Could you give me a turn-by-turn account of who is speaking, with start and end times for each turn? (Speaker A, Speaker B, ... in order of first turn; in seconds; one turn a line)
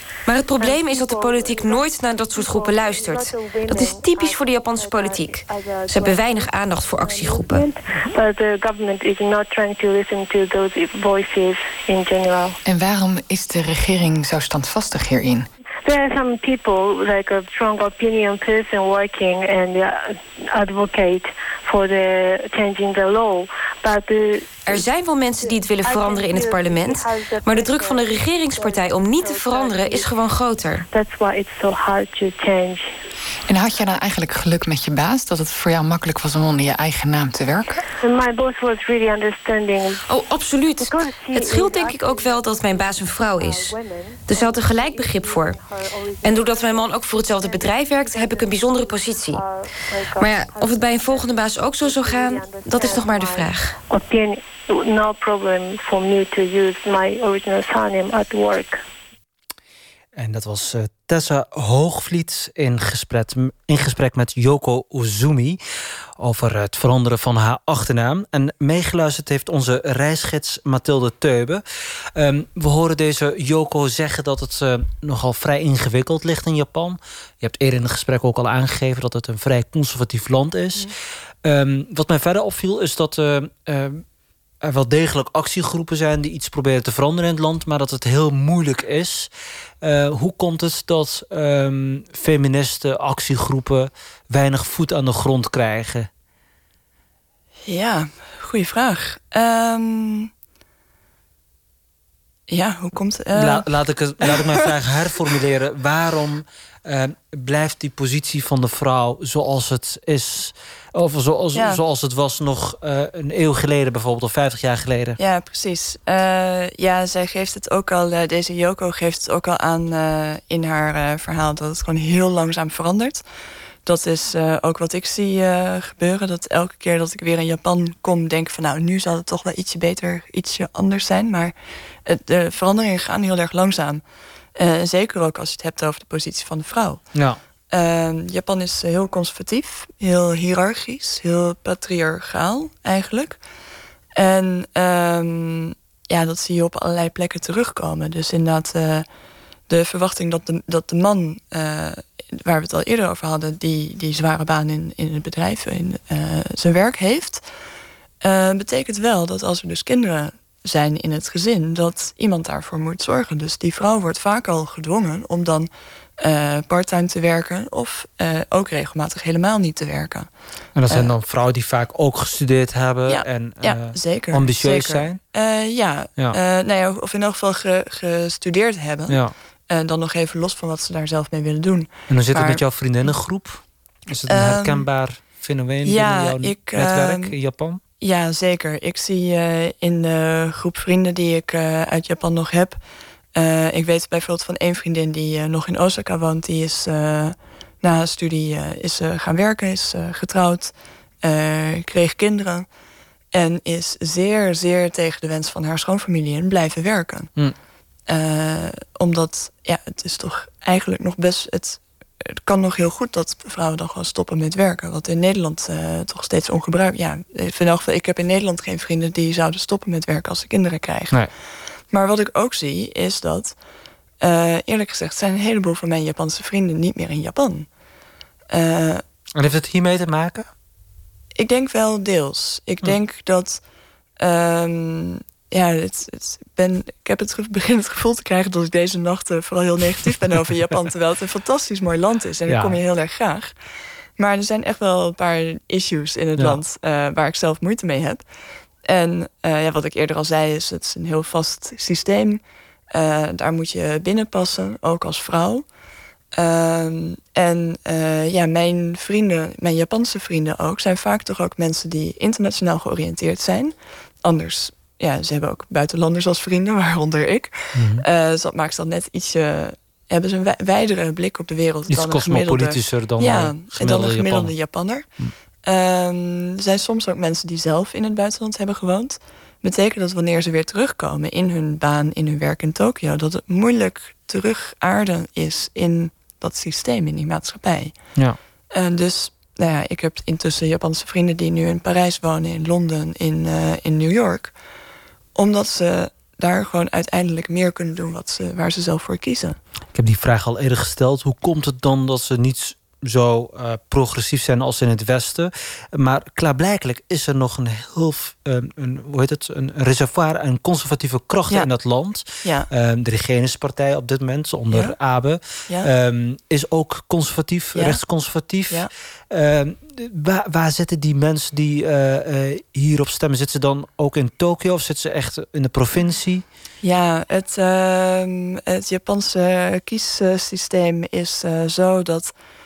Speaker A: 0.2-7.7
Speaker B: 0.6-12.6
Speaker C: 12.6-15.5
Speaker B: 15.8-30.1
Speaker A: 24.6-30.9
Speaker B: 30.9-32.9
Speaker C: 33.5-37.8
Speaker B: 37.8-40.0
Speaker A: 40.0-43.8
Speaker B: 40.8-58.8
Speaker A: 44.3-45.6
Speaker A: 46.2-49.4
Speaker A: 50.2-53.8
Speaker D: 60.1-65.6
Speaker D: 66.2-71.6
Speaker D: 72.1-84.0
Speaker D: 84.6-96.1
Speaker E: 97.7-100.3
Speaker E: 102.5-103.7
Speaker D: 103.3-115.2
Speaker E: 104.2-104.6
Speaker E: 111.5-111.8
Speaker E: 115.2-123.2
Speaker E: 123.8-131.5
Speaker E: 132.0-134.0
Speaker E: 134.6-137.0
Speaker D: 137.1-137.4
Speaker E: 137.7-143.4
Speaker E: 144.2-149.1
Speaker E: 149.7-157.4
Speaker E: 158.2-170.3
Speaker D: 170.8-175.2
Speaker E: 173.1-182.6
Speaker D: 179.1-179.3
Speaker D: 182.1-187.8
Speaker E: 184.3-184.9
Speaker E: 185.8-187.3
Speaker E: 188.0-192.8
Speaker E: 193.3-202.7
Speaker E: 203.3-207.3
Speaker E: 208.1-221.2
Speaker E: 221.9-223.6
Speaker E: 224.2-227.7
Speaker E: 228.5-229.0
Speaker D: 229.3-230.5
Speaker E: 231.3-233.6
Speaker E: 234.2-243.5
Speaker D: 242.5-242.8
Speaker E: 244.2-248.2
Speaker E: 248.8-255.6
Speaker E: 256.3-275.1
Speaker D: 267.7-268.0
Speaker D: 271.9-274.5
Speaker E: 275.6-287.9
Speaker E: 288.7-294.5
Speaker E: 295.3-299.6
Speaker D: 299.9-326.4
Speaker E: 312.4-312.7
Speaker E: 314.7-314.9
Speaker E: 317.7-318.0
Speaker E: 326.8-332.3